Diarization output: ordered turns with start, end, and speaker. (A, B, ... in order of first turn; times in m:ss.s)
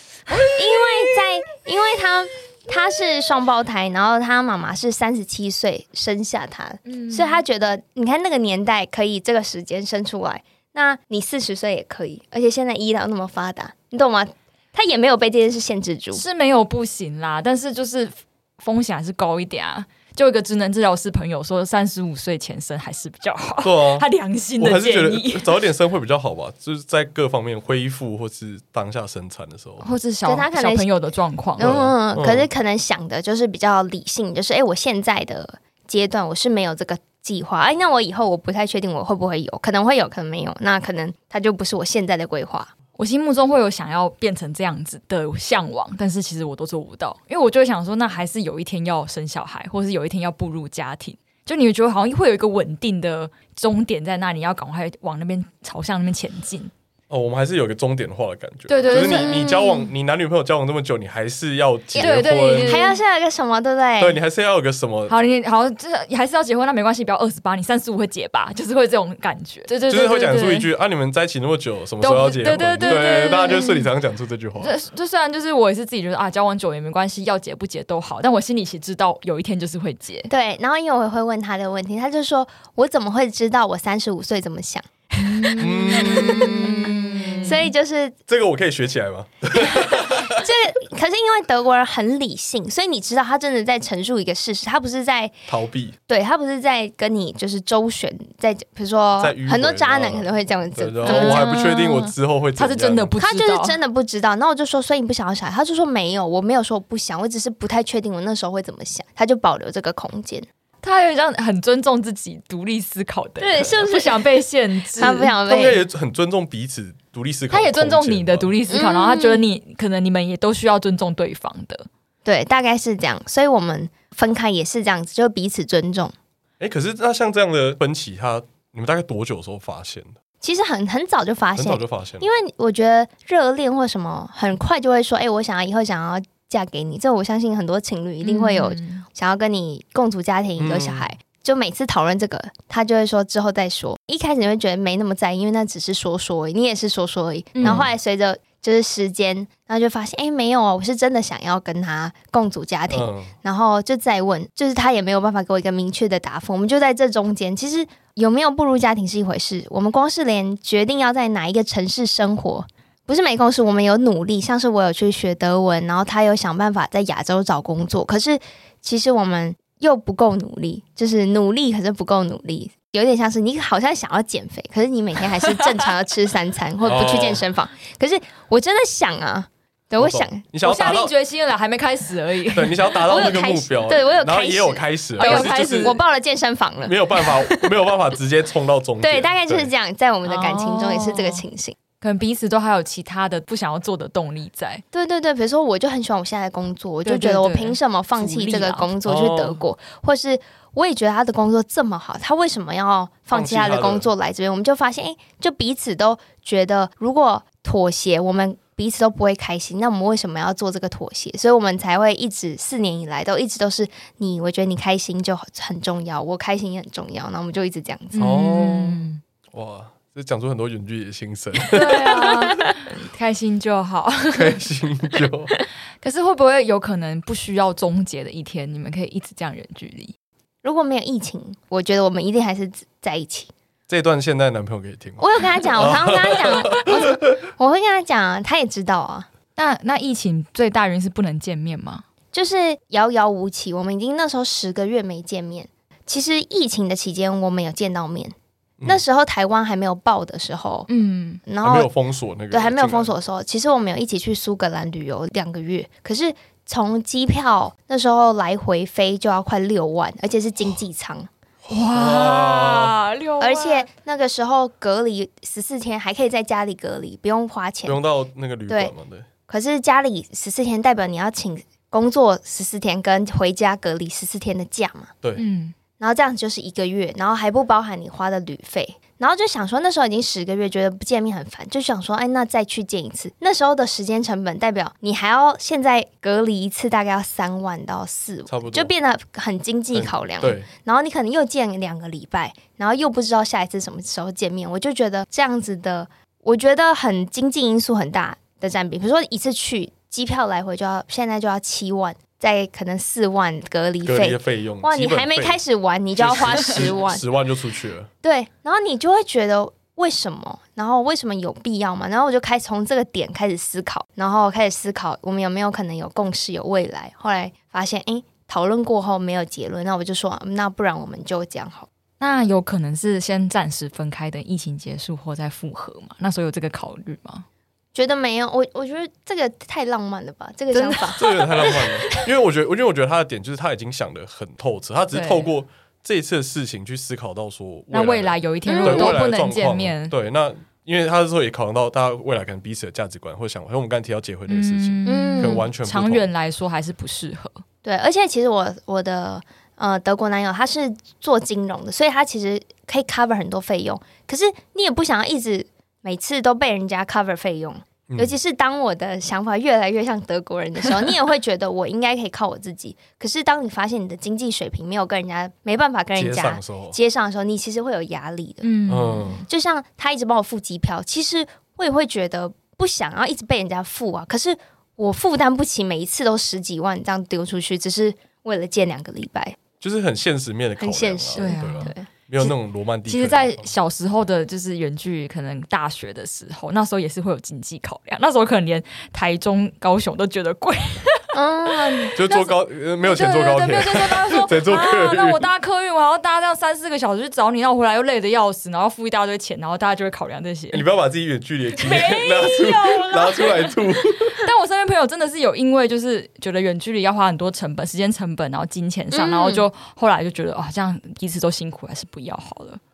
0:00.4-0:16.2 A
0:06.9-0:07.4 B
0:16.1-0:25.5 B
0:23.6-0:24.1 C
0:24.6-0:29.9 C
0:29.8-0:31.7 B
0:30.2-0:30.9 A
0:31.6-0:32.5 C
0:31.6-0:42.7 A
0:43.0-0:56.7 B
0:57.1-1:02.8 C
0:58.7-0:59.8 B
0:58.9-0:59.6 A
1:02.0-1:03.0 B
1:02.0-1:04.2 A
1:04.0-1:05.2 C
1:05.1-1:10.7 B
1:09.9-1:14.7 C
1:12.0-1:13.9 B
1:12.9-1:13.7 A
1:14.6-1:20.3 B
1:20.3-1:28.2 A
1:25.2-1:27.7 B
1:25.6-1:26.8 C
1:28.3-1:30.4 C
1:30.2-1:35.4 A
1:35.5-1:36.0 C
1:36.1-1:41.5 A
1:39.2-1:43.1 C
1:41.0-1:43.8 B
1:43.2-1:50.5 A
1:50.8-1:55.4 B
1:53.4-1:54.3 A
1:55.0-1:55.8 A
1:55.4-1:58.6 C
1:57.5-2:01.9 B
1:58.7-1:59.4 A
2:02.2-2:06.1 A
2:06.6-2:10.2 C
2:10.4-3:00.4 A
2:11.6-2:12.3 C
2:18.2-2:19.0 B
2:20.6-2:21.1 C
2:27.6-2:27.9 B
2:27.6-2:27.9 C
2:32.9-2:33.3 C
2:56.8-2:57.4 C
3:00.0-3:01.1 C
3:00.6-3:02.9 B
3:02.5-3:06.0 C
3:03.0-3:07.7 A
3:05.2-3:06.0 B
3:06.8-3:09.7 C
3:09.0-3:11.8 A
3:10.2-3:11.4 B
3:12.0-3:14.8 B
3:14.9-3:38.2 A
3:17.0-3:18.9 B
3:19.0-3:19.6 C
3:23.3-3:24.1 C
3:38.1-3:39.2 B
3:38.2-3:42.6 C
3:41.7-3:44.6 B
3:44.3-3:45.5 C
3:46.0-3:50.1 B
3:50.6-3:53.5 A
3:53.9-3:57.0 C
3:55.2-3:59.3 A
3:59.6-4:02.0 B
4:02.3-4:10.9 A
4:10.9-4:11.4 B
4:11.4-4:11.9 A
4:11.6-4:13.2 C
4:12.5-4:21.3 A
4:21.7-4:23.0 C
4:21.7-4:23.9 B
4:23.4-4:28.0 A
4:27.8-4:29.3 C
4:28.7-4:28.9 A
4:29.5-4:35.1 A
4:35.4-4:35.8 B
4:36.0-5:07.2 A
4:48.5-4:48.9 C
4:49.9-4:50.7 C
5:04.0-5:05.6 C
5:06.1-5:08.1 C
5:08.2-5:21.9 A
5:22.2-5:27.5 B
5:27.9-5:31.2 A
5:30.7-5:32.2 B
5:31.2-5:46.3 C
5:35.1-5:35.5 B
5:37.9-5:40.1 B
5:38.7-5:39.2 A
5:44.5-5:47.6 B
5:45.1-5:45.7 A
5:47.8-6:08.7 A
5:58.1-5:58.4 C
6:06.2-6:07.0 C
6:08.6-6:09.4 B
6:08.9-6:09.4 C
6:09.5-6:19.6 A
6:19.8-6:23.7 C
6:20.8-6:22.1 A
6:21.4-6:21.9 B
6:23.1-6:32.5 B
6:31.3-6:32.2 A
6:32.2-6:35.5 C
6:33.0-6:40.8 B
6:40.7-6:44.4 C
6:41.8-6:52.8 B
6:49.1-6:49.7 A